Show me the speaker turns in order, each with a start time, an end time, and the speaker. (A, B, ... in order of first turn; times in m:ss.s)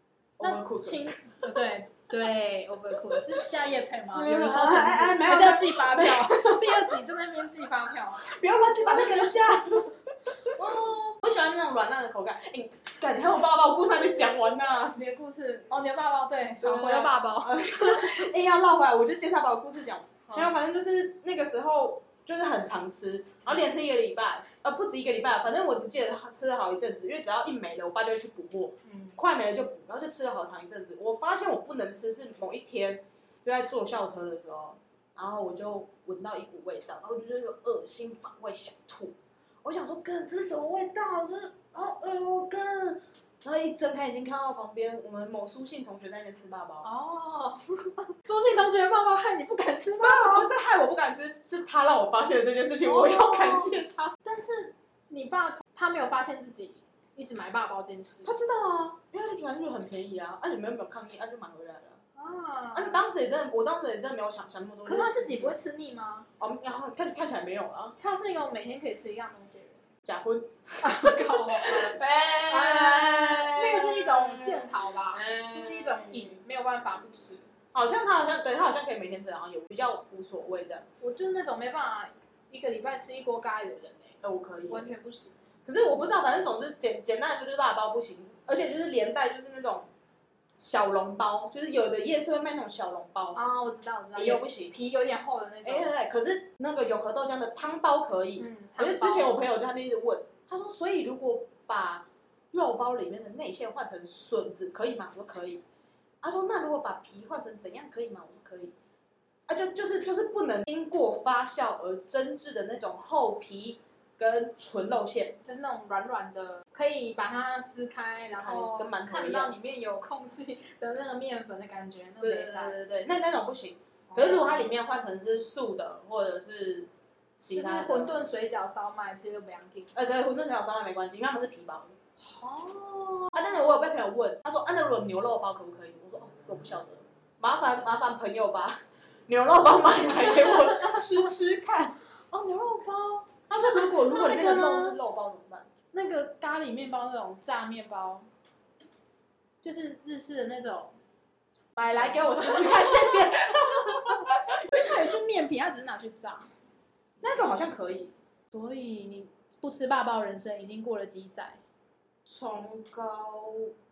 0:00.4-0:01.6 A
0:00.4-0:08.3 B
0:03.0-0:03.4 A
0:04.1-0:07.0 A
0:08.2-0:15.0 A
0:08.9-0:09.3 B
0:14.9-0:18.3 B
0:16.6-0:46.9 A
0:28.8-0:29.2 B
0:46.8-0:50.5 B
0:50.0-0:54.1 A
0:52.8-0:58.3 B
0:58.2-1:02.0 A
1:02.2-1:03.0 B
1:02.7-1:05.6 A
1:04.8-1:06.3 B
1:06.4-1:08.0 A
1:08.0-1:09.8 B
1:10.0-1:16.4 A
1:10.8-1:17.5 B
1:17.7-1:20.9 A
1:21.0-1:25.4 B
1:24.2-1:24.9 A
1:25.6-1:29.9 A
1:30.6-1:33.4 A
1:33.4-1:35.9 B
1:34.2-1:34.8 A
1:35.6-1:45.6 A
1:38.4-1:39.5 B
1:46.2-1:48.8 A
1:49.5-1:55.4 A
1:55.4-2:02.8 B
1:58.2-1:59.5 A
2:02.2-2:08.3 A
2:04.1-2:04.7 B
2:07.6-2:09.9 B
2:09.9-2:12.0 A
2:12.2-2:13.6 B
2:13.3-2:22.0 A
2:20.2-2:21.1 B
2:22.3-2:25.0 B
2:23.5-2:25.7 A
2:25.9-2:28.3 B
2:29.6-2:31.0 B
2:31.8-2:34.9 A
2:31.9-2:36.5 B
2:37.2-2:38.1 A
2:38.5-2:41.6 B
2:42.3-2:43.7 A